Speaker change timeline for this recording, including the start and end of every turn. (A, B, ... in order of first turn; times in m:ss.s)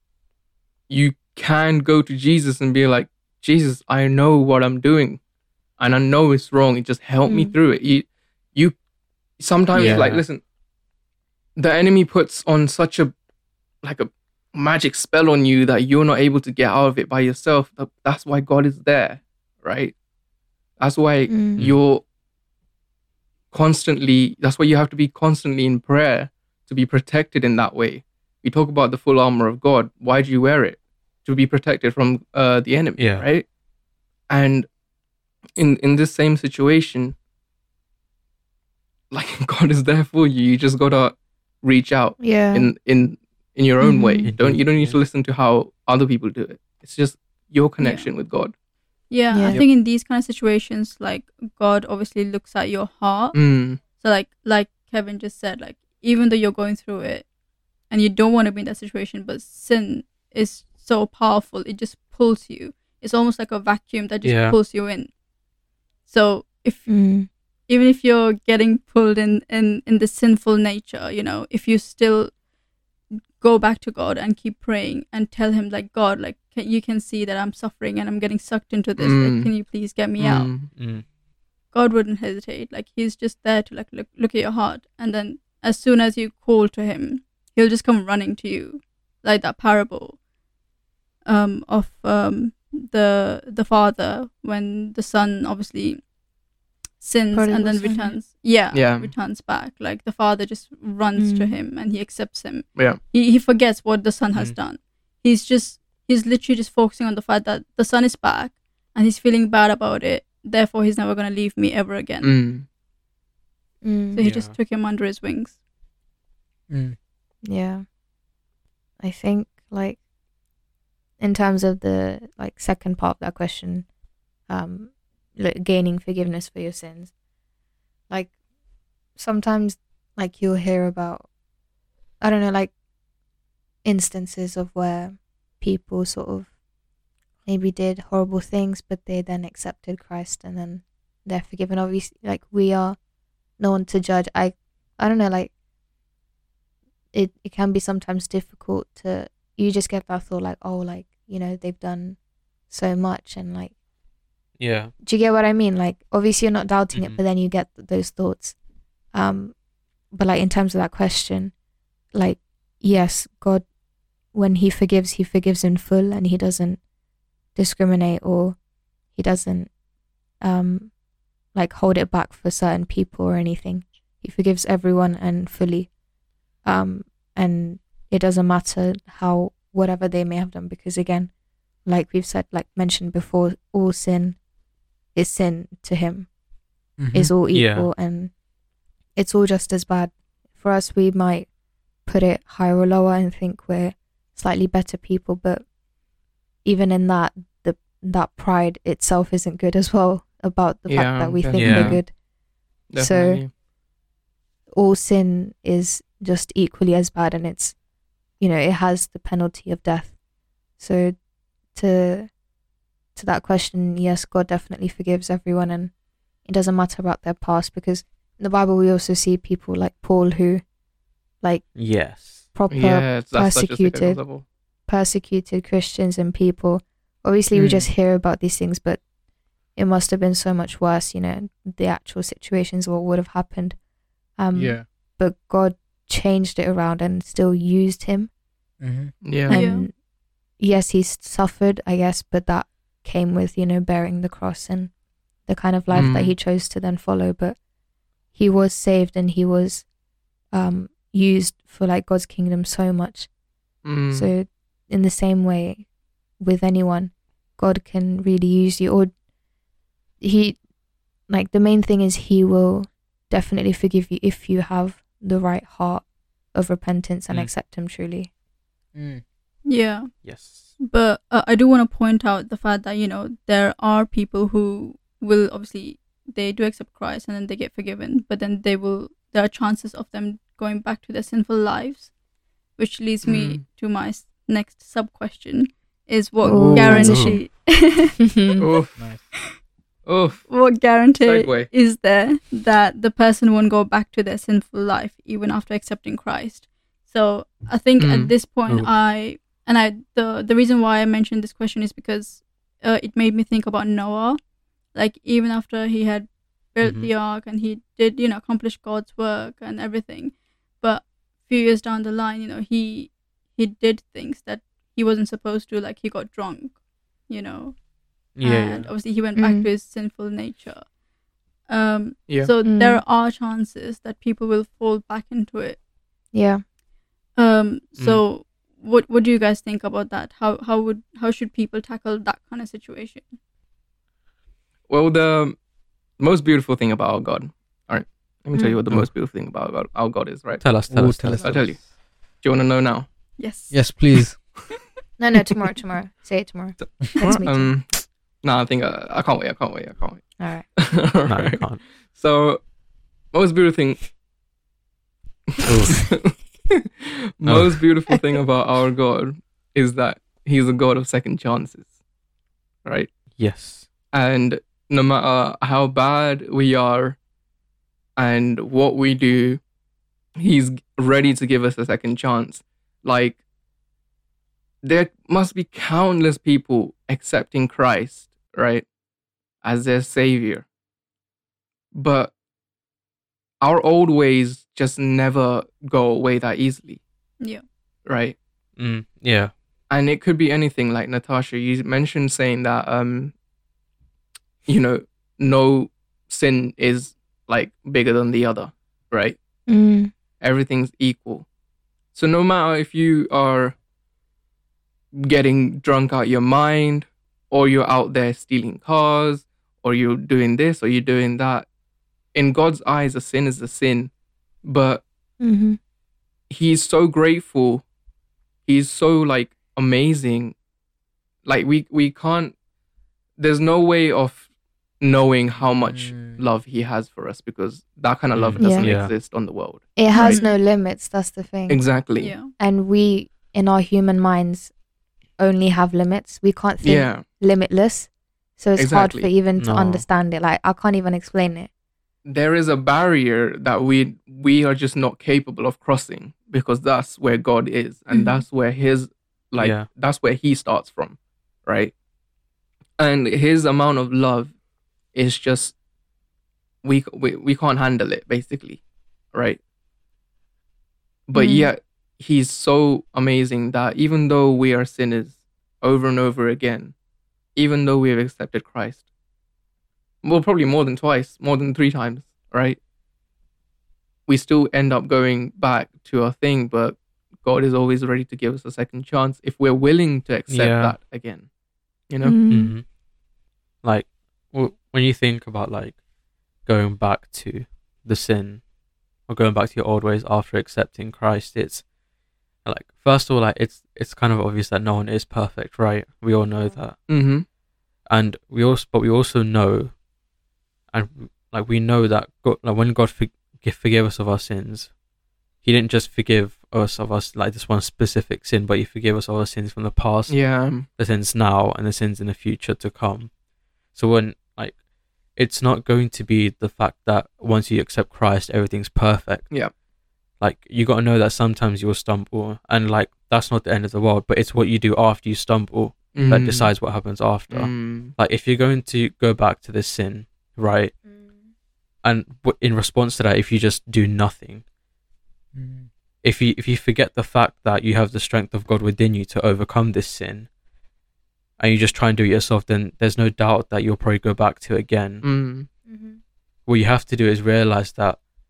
0:00.9-0:05.2 A
0:05.8-0:08.7 A
0:07.2-0:07.5 B
0:09.4-0:10.4 A
0:09.7-0:10.2 C
0:11.6-0:13.1 A
0:13.8-0:19.9 A
0:20.8-0:22.0 A
0:21.3-0:21.6 B
0:23.5-0:33.4 A
0:33.0-0:33.2 C
0:34.3-0:34.7 A
0:35.6-0:37.1 A
0:39.1-0:48.5 A
0:42.2-0:42.7 B
0:43.8-0:44.3 B
0:44.2-0:45.0 C
0:47.8-0:48.1 D
0:49.1-0:57.3 D
0:49.3-0:49.6 B
0:53.3-0:53.8 A
0:57.9-1:05.1 D
1:04.2-1:04.6 C
1:06.0-1:07.1 D
1:06.9-1:07.3 B
1:07.7-1:12.3 D
1:13.4-1:20.6 D
1:19.0-1:19.5 A
1:20.2-1:20.7 A
1:20.7-1:21.0 C
1:21.7-1:30.2 D
1:31.2-1:36.0 D
1:37.0-1:52.3 D
1:37.3-1:38.2 B
1:38.7-1:39.1 A
1:41.2-1:41.6 B
1:52.2-1:52.6 A
1:53.8-1:54.2 B
1:54.1-1:55.6 D
1:54.2-1:54.6 C
1:56.7-1:57.0 E
1:57.4-1:57.8 B
1:59.0-2:00.0 B
2:01.2-2:03.9 B
2:04.5-2:07.1 B
2:09.1-2:11.3 B
2:12.2-2:12.7 B
2:13.8-2:16.5 B
2:17.4-2:23.0 B
2:23.6-2:25.5 B
2:27.1-2:32.2 B
2:32.7-2:33.7 B
2:34.6-2:34.9 C
2:35.0-2:38.6 B
2:36.9-2:37.2 C
2:39.1-2:39.5 B
2:40.1-2:41.5 B
2:42.1-2:43.6 B
2:44.3-2:46.8 B
2:47.5-2:48.6 B
2:49.1-2:49.7 B
2:50.4-2:50.9 B
2:51.5-2:55.9 B
2:56.6-3:01.3 B
3:01.8-3:04.4 B
3:05.1-3:06.3 B
3:07.0-3:07.3 E
3:07.1-3:08.3 B
3:07.5-3:07.9 C
3:09.2-3:11.5 B
3:12.0-3:15.6 B
3:16.6-3:22.1 B
3:20.9-3:22.0 A
3:21.5-3:22.0 C
3:22.9-3:23.5 A
3:23.0-3:23.4 B
3:24.7-3:27.8 B
3:28.4-3:30.1 B
3:30.8-3:31.2 B
3:31.7-3:32.3 B
3:33.1-3:35.9 B
3:36.4-3:40.6 B
3:41.4-3:41.8 B
3:41.7-3:42.4 C
3:42.5-3:44.2 B
3:42.7-3:44.4 A
3:44.9-3:49.0 B
3:47.5-3:47.9 E
3:49.7-3:53.8 B
3:54.4-3:58.3 B
3:54.5-3:54.8 E
3:58.8-3:59.1 E
3:59.2-3:59.6 A
3:59.5-3:59.9 D
3:59.5-3:59.9 B
4:00.6-4:04.9 B
4:05.4-4:07.6 B
4:05.9-4:06.3 A
4:08.3-4:09.8 B
4:10.5-4:13.3 B
4:13.8-4:14.3 A
4:14.1-4:15.8 B
4:16.4-4:19.1 B
4:20.2-4:20.6 B
4:21.3-4:28.3 B
4:28.9-4:29.2 E
4:29.6-4:30.2 D
4:30.2-4:30.7 C
4:30.8-4:42.1 D
4:42.8-4:48.4 D
4:43.2-4:43.6 A
4:46.4-4:47.5 B
4:46.4-4:47.2 E
4:47.0-4:47.4 C
4:48.3-4:48.6 B
4:48.6-4:49.0 A
4:49.0-4:49.2 E
4:50.0-4:50.5 A
4:50.5-5:04.4 D
4:51.1-4:51.7 A
4:58.0-4:58.3 A
5:04.9-5:17.8 D
5:06.8-5:07.1 C
5:18.4-5:18.9 C
5:18.4-5:20.9 D
5:19.4-5:19.7 B
5:21.7-5:25.8 D
5:22.6-5:23.0 B
5:26.3-5:26.6 B
5:27.4-5:33.3 D
5:28.0-5:28.2 C
5:34.9-5:35.6 A
5:36.2-5:40.7 A
5:38.5-5:38.8 B
5:40.6-5:41.7 C
5:40.9-5:41.6 E
5:41.4-5:41.8 A
5:42.4-5:43.1 A
5:43.4-5:43.9 D
5:43.7-5:44.6 E
5:45.2-5:47.7 B
5:47.2-5:52.6 A
5:50.4-5:50.6 B
5:51.2-5:51.8 C
5:53.3-5:54.0 A
5:55.6-6:01.8 A
5:55.6-5:56.1 C
5:57.4-5:57.8 C
6:02.8-6:03.1 A
6:03.4-6:03.9 C
6:04.1-6:07.2 A
6:08.2-6:09.6 A
6:10.4-6:13.4 A
6:14.8-6:18.8 A
6:19.6-6:20.6 A
6:21.9-6:22.3 A
6:23.6-6:27.0 A
6:28.0-6:28.4 A
6:28.8-6:29.5 C
6:29.9-6:33.3 A
6:34.7-6:39.4 A
6:39.7-6:40.1 B
6:40.4-6:41.4 A
6:42.1-6:43.7 A
6:45.1-6:51.7 A
6:52.3-6:54.1 A
6:54.6-6:55.0 A
6:55.4-6:55.8 B
6:56.5-6:57.8 A
6:58.6-7:00.5 A
7:01.4-7:02.5 A
7:03.4-7:04.4 A
7:05.0-7:10.4 A
7:05.9-7:06.4 E
7:08.3-7:09.1 C
7:08.6-7:08.9 B
7:10.0-7:11.8 B
7:10.1-7:10.6 D
7:11.7-7:12.3 A
7:12.2-7:12.5 D
7:12.6-7:14.7 B
7:15.4-7:21.7 B
7:16.8-7:17.2 A
7:18.8-7:19.3 A
7:19.6-7:20.0 C
7:22.2-7:31.9 A
7:28.1-7:28.4 B
7:29.6-7:29.8 C
7:33.0-7:34.5 A
7:35.1-7:35.7 A
7:36.8-7:38.8 A
7:39.3-7:39.6 A
7:41.3-7:46.9 A
7:41.3-7:41.7 B
7:47.6-7:49.0 A
7:50.2-7:52.8 A
7:54.3-8:01.5 A
8:00.5-8:01.0 C
8:02.1-8:02.4 A
8:02.2-8:02.7 B
8:02.5-8:02.9 C
8:03.8-8:06.0 C
8:06.6-8:08.6 C
8:09.3-8:11.8 C
8:12.6-8:17.2 C
8:17.1-8:17.4 A
8:18.0-8:20.0 C
8:20.9-8:24.9 C
8:25.6-8:33.3 C
8:30.3-8:30.8 A
8:33.9-8:34.8 C
8:35.4-8:39.5 C
8:40.4-8:50.9 C
8:46.1-8:46.7 A
8:47.5-8:48.1 A
8:51.1-8:51.4 B
8:52.0-8:54.6 C
8:55.5-8:55.9 E
8:56.2-9:00.5 C
9:01.6-9:05.2 C
9:05.2-9:05.7 A
9:05.9-9:06.2 B
9:06.7-9:08.2 C